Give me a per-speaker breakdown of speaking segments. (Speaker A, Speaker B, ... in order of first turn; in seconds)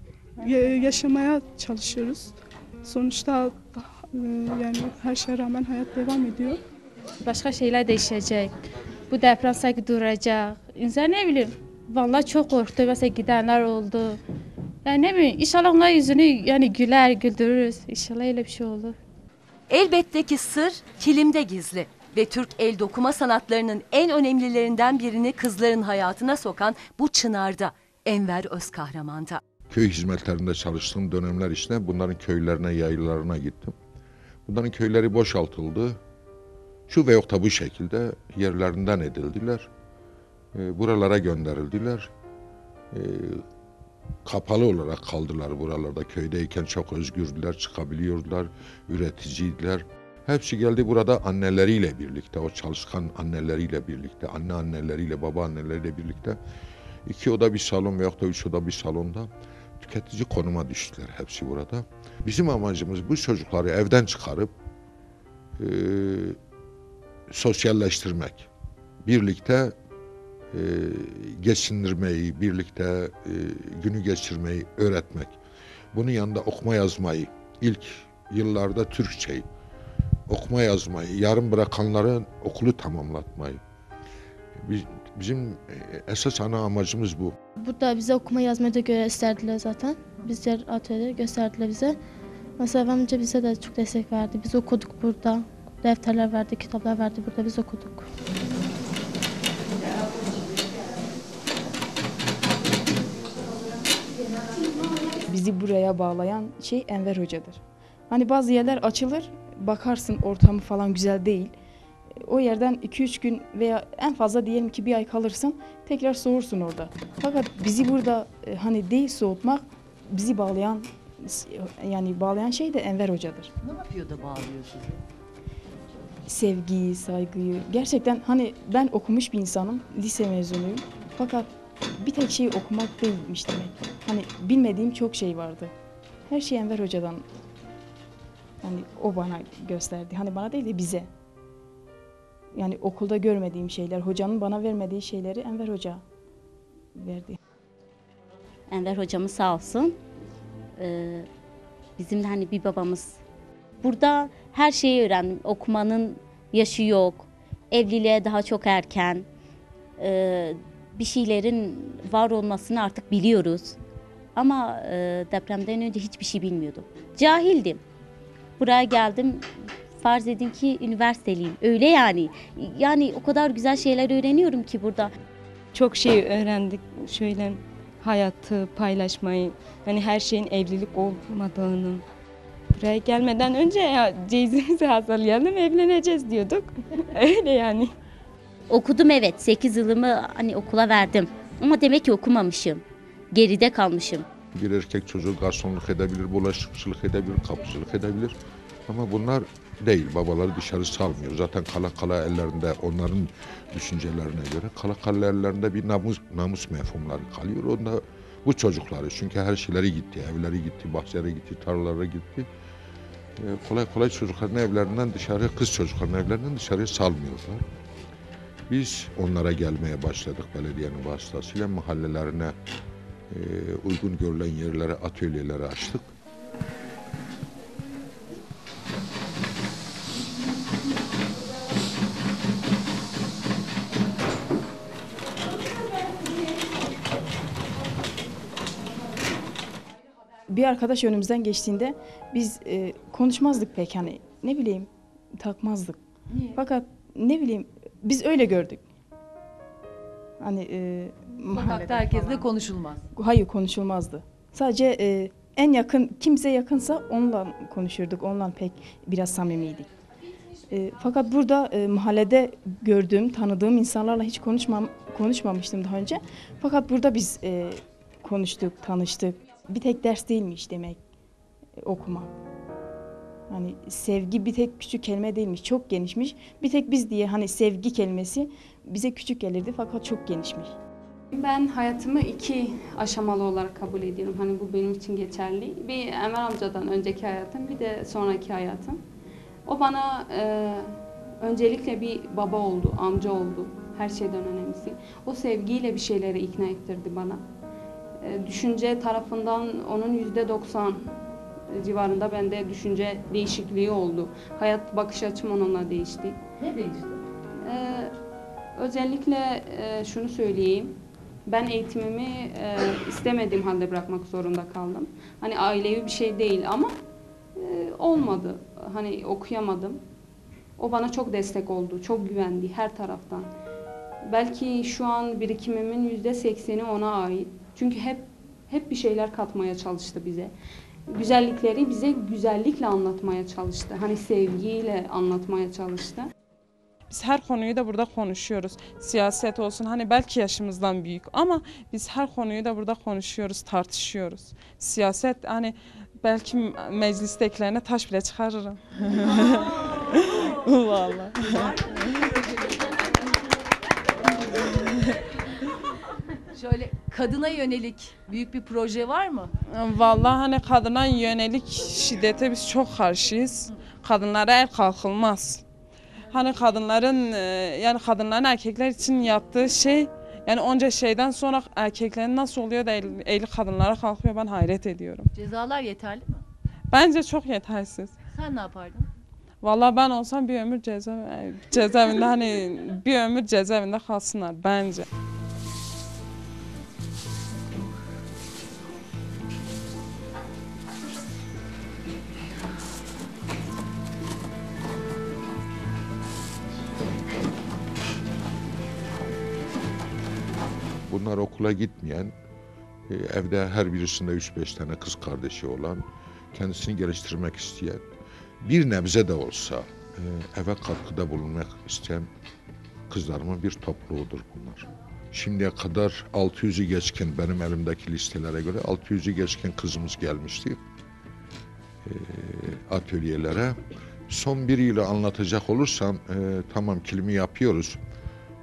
Speaker A: 0.4-6.6
Speaker B: 7.2-8.5, 9.1-14.2, 14.8-18.9
Speaker C: 19.7-29.4, 123.6-125.0, 251.5-253.0, 306.6-307.2, 356.5-359.5, 375.3-376.4, 378.3-379.1
Speaker D: 29.7-33.7, 34.5-36.0, 36.9-39.7, 40.5-42.1, 42.9-43.4, 44.2-56.4, 57.1-64.5, 65.6-66.4, 67.3-68.5, 69.0-69.7, 70.5-75.3, 75.9-79.5, 80.3-83.6, 84.6-87.3, 194.5-198.3, 198.9-212.4, 213.4-217.6, 218.7-222.5, 223.3-226.1, 401.1-402.3, 403.1-408.0, 408.6-412.3, 413.1-420.8, 422.0-423.8, 424.3-428.0
Speaker E: 87.6-92.0, 92.6-98.1
Speaker F: 105.2-111.5, 112.2-123.5, 126.3-135.7, 136.3-137.2, 138.6-141.1, 142.6-146.0, 146.9-147.4, 240.5-246.0, 246.5-248.8, 250.4-252.5, 253.1-259.9, 260.7-271.0, 271.8-272.3, 273.5-280.8
Speaker G: 148.7-149.9, 150.8-151.3, 152.0-153.2, 153.8-159.2, 160.0-163.8, 164.3-167.8, 168.6-169.4, 170.0-175.1, 188.7-194.2
Speaker H: 175.7-182.0, 182.7-187.9
Speaker I: 281.3-289.0, 289.6-290.9, 291.4-297.4, 298.2-301.0, 301.7-306.4, 307.6-308.1, 308.8-316.9, 317.6-320.0, 320.8-323.5, 324.2-330.5, 331.1-336.3
Speaker J: 337.1-352.2, 359.7-365.6, 366.3-375.3, 376.9-378.1, 379.6-385.1